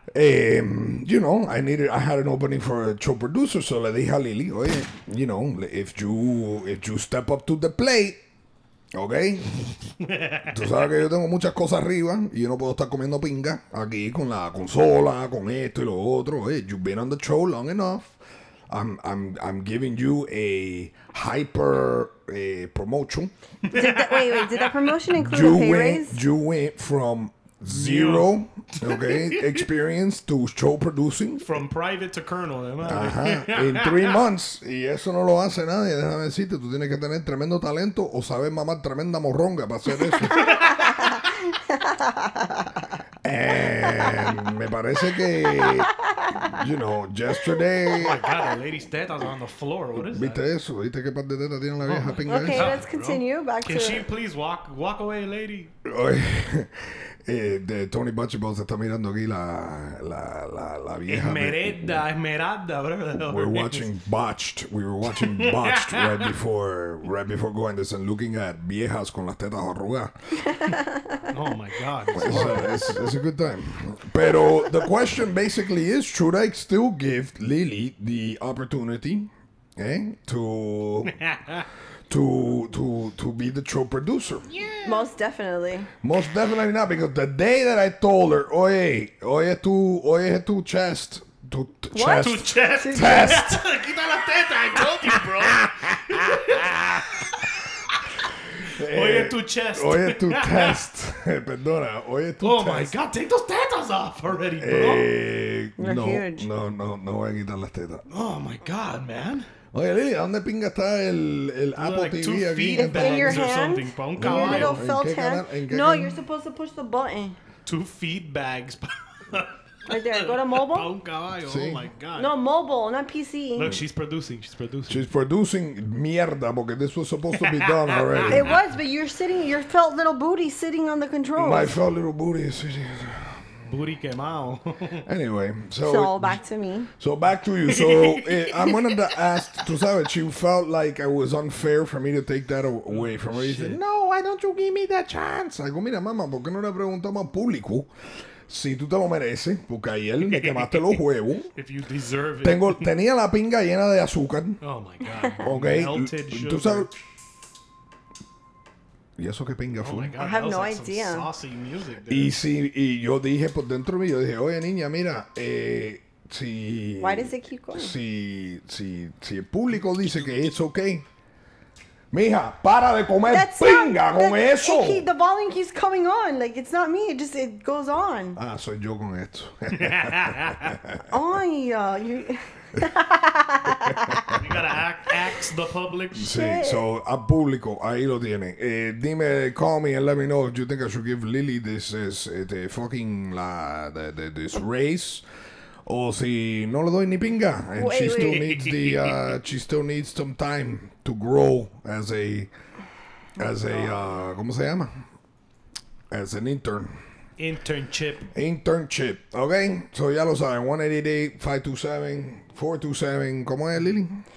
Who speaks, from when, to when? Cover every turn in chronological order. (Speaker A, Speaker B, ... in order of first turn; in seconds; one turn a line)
Speaker A: 0.1-8.2
Speaker A: 8.9-9.7
Speaker B: 10.1-10.5
Speaker A: 10.5-18.2
Speaker A: 18.7-23.3
Speaker C: 23.7-26.2
Speaker B: 23.8-24.7
Speaker A: 25.1-31.6
Speaker B: 27.6-28.3
Speaker B: 31.4-34.2
Speaker A: 32.8-40.6
Speaker C: 40.2-42.7
Speaker A: 43.2-45.9
Speaker C: 45.5-46.5
Speaker A: 46.5-48.3
Speaker B: 48.0-50.4
Speaker A: 50.0-52.8
Speaker B: 51.8-55.7
Speaker C: 52.2-54.1
Speaker A: 55.8-62.0
Speaker B: 61.1-63.9
Speaker A: 63.2-70.4
Speaker B: 65.2-66.3
Speaker C: 70.6-71.2
Speaker B: 71.3-72.8
Speaker A: 72.1-81.2
Speaker B: 81.1-81.6
Speaker A: 82.1-84.5
Speaker B: 84.5-85.1
Speaker C: 84.8-85.9
Speaker A: 86.0-93.6
Speaker C: 91.9-93.4
Speaker B: 92.0-97.3
Speaker A: 95.1-97.2
Speaker A: 98.7-102.9
Speaker B: 98.8-100.8
Speaker B: 102.4-105.1
Speaker A: 104.6-108.0
Speaker C: 105.8-106.5
Speaker B: 108.1-109.5
Speaker A: 109.7-113.5
Speaker B: 111.8-114.8
Speaker C: 112.7-117.4
Speaker A: 114.2-116.2
Speaker B: 117.7-122.3
Speaker C: 119.9-120.9
Speaker A: 121.4-121.9
Speaker C: 122.2-123.8
Speaker B: 123.6-125.0
Speaker A: 124.9-128.5
Speaker B: 127.4-128.4
Speaker C: 128.3-131.7
Speaker A: 131.3-133.3
Speaker B: 133.7-135.0
Speaker A: 135.0-136.4
Speaker C: 135.8-136.9
Speaker A: 137.0-147.9
Speaker B: 137.7-138.7
Speaker B: 142.9-143.8
Speaker A: 148.5-151.5
Speaker B: 150.3-150.9
Speaker B: 151.6-152.9
Speaker A: 152.4-154.6
Speaker B: 154.6-156.9
Speaker A: 155.4-156.9
Speaker A: 159.2-160.1
Speaker B: 159.8-162.3
Speaker C: 160.2-161.3
Speaker A: 162.1-171.0
Speaker C: 167.0-167.9
Speaker A: 172.1-175.1
Speaker C: 173.3-178.4
Speaker A: 178.3-181.0
Speaker B: 179.8-180.7
Speaker C: 181.1-184.3
Speaker B: 184.3-186.3
Speaker A: 186.1-195.2
Speaker C: 186.3-186.8
Speaker A: 195.8-202.5
Speaker C: 197.8-198.4
Speaker B: 198.2-199.2
Speaker A: 203.4-205.0
Speaker A: 206.1-207.0
Speaker B: 207.4-208.3
Speaker A: 208.3-214.2